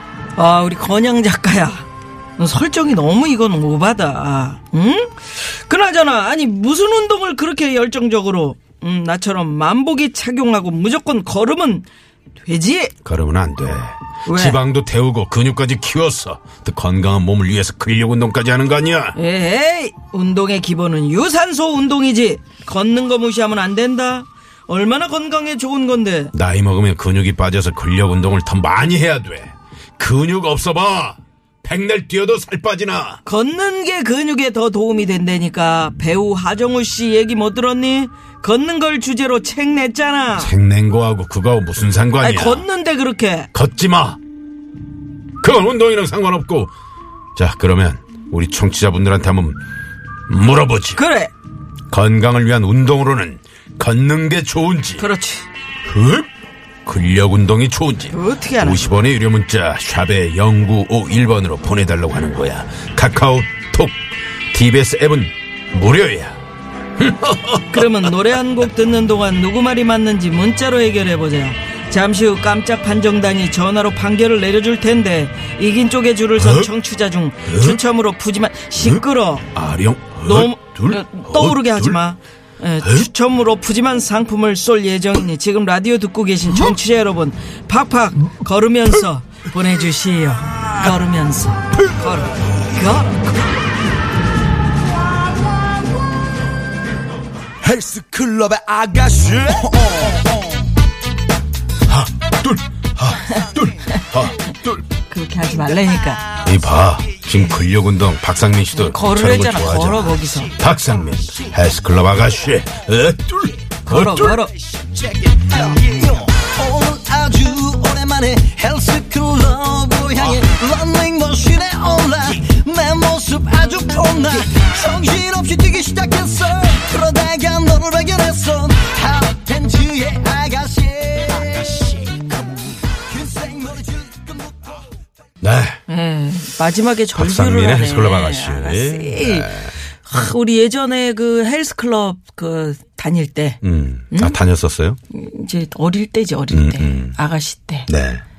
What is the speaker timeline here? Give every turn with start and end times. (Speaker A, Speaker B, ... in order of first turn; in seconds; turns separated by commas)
Speaker A: 0.4-11.9, Speaker A: 12.4-12.9, Speaker B: 13.0-19.2, Speaker A: 14.3-14.6, Speaker A: 19.1-26.3, Speaker B: 26.3-33.2, Speaker A: 33.2-40.5, Speaker B: 40.4-42.7, Speaker A: 42.2-43.5, Speaker B: 43.5-44.2, Speaker B: 45.4-46.7, Speaker B: 47.4-49.6, Speaker B: 50.3-51.0, Speaker A: 51.0-51.3, Speaker B: 51.9-55.1, Speaker A: 55.0-55.5, Speaker B: 55.9-56.3, Speaker B: 56.9-66.4, Speaker A: 58.1-58.9, Speaker B: 67.0-68.1, Speaker A: 67.7-79.5, Speaker B: 76.4-76.7, Speaker B: 77.5-77.8, Speaker B: 78.8-82.0, Speaker A: 80.2-93.3, Speaker B: 82.8-83.1, Speaker C: 97.6-100.5, Speaker B: 101.9-104.8, Speaker A: 105.1-106.3, Speaker B: 106.4-114.4, Speaker A: 108.8-110.5, Speaker A: 113.9-114.6, Speaker C: 114.8-134.8, Speaker B: 135.4-135.8, Speaker A: 135.9-144.4, Speaker B: 137.1-139.8, Speaker B: 143.6-145.0, Speaker A: 145.1-147.9, Speaker B: 146.5-147.2, Speaker B: 147.9-148.2